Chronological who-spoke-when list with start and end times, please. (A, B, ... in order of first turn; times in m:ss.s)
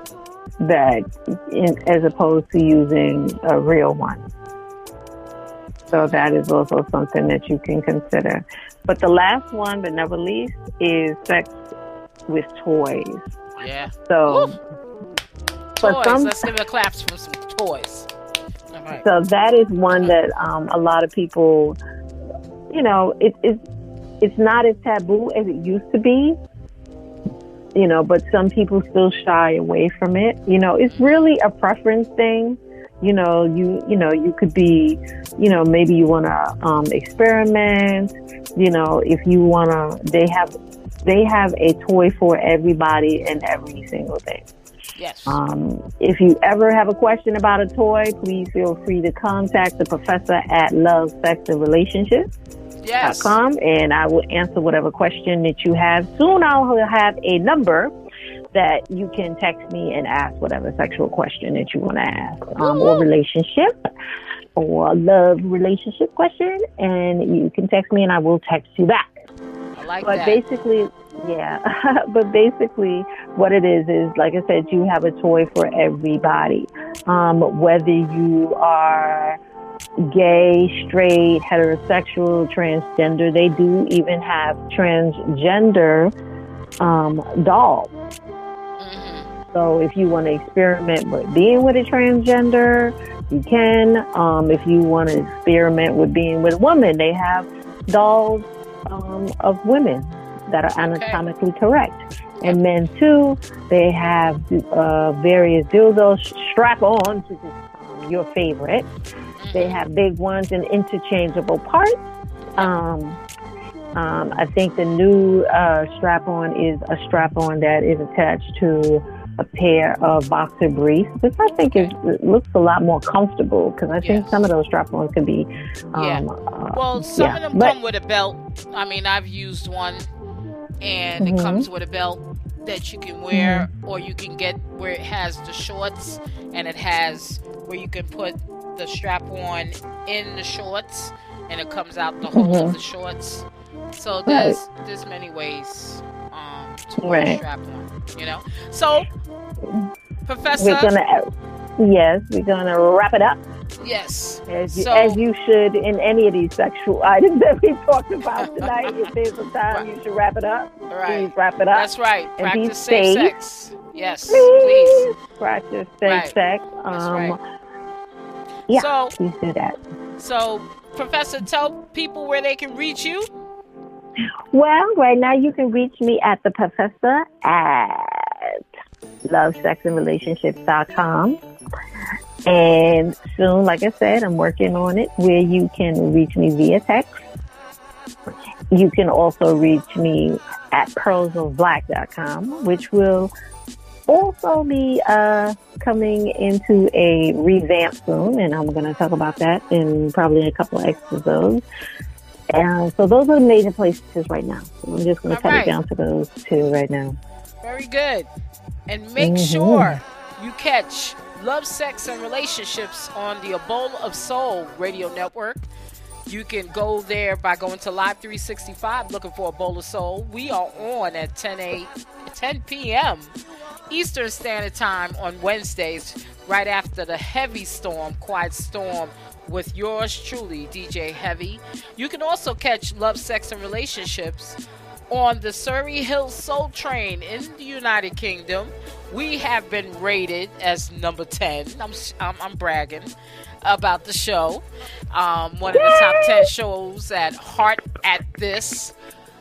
0:00.6-0:04.2 A
0:05.9-0:06.2 B
0:05.9-0:11.6 A
0:12.3-0:13.2 A
0:13.6-0:14.5 B
0:14.1-0:14.6 A
0:15.8-0:18.1 B
0:15.8-0:16.5 A
0:18.7-0:19.0 B
0:19.0-0:21.8 A
0:22.7-0:23.6 A
0:24.2-0:26.4 A
0:27.7-0:40.5 A
0:30.9-0:31.3 B
0:41.0-0:44.5 A
0:45.0-0:45.4 B
0:45.2-0:52.3 A
0:52.8-0:53.4 B
0:53.0-0:57.9 A
0:58.5-1:03.7 A
1:02.6-1:03.0 B
1:04.6-1:09.2 A
1:09.7-1:10.4 B
1:10.0-1:19.4 A
1:20.0-1:26.1 A
1:26.8-1:27.9 A
1:28.8-1:29.3 B
1:29.5-1:48.9 A
1:40.8-1:41.2 B
1:49.4-1:49.8 B
1:49.5-1:52.0 A
1:52.6-1:53.2 A
1:54.0-2:07.8 A
2:04.0-2:04.4 B
2:05.9-2:10.1 B
2:10.8-2:29.1 B
2:11.2-2:11.7 A
2:13.3-2:13.7 A
2:22.3-2:22.7 A
2:24.3-2:24.6 A
2:27.0-2:27.4 A
2:30.2-2:30.9 B
2:30.6-2:33.4 A
2:33.8-2:35.2 B
2:34.5-2:43.3 A
2:38.4-2:39.1 B
2:40.9-2:45.0 B
2:44.3-2:47.4 A
2:46.0-2:46.3 B
2:46.9-2:47.4 B
2:48.7-2:49.8 A
2:48.7-2:49.1 B
2:50.2-2:53.3 B
2:54.5-2:58.6 A
2:59.3-3:01.4 A
3:02.4-3:07.2 A
3:08.7-3:13.3 A
3:14.1-3:21.6 A
3:22.5-3:27.2 A
3:25.3-3:25.8 B
3:27.6-3:28.3 B
3:28.9-3:35.6 B
3:29.2-3:30.0 A
3:36.3-3:43.3 B
3:43.9-4:03.1 B
4:03.6-4:08.9 B
4:05.8-4:06.1 A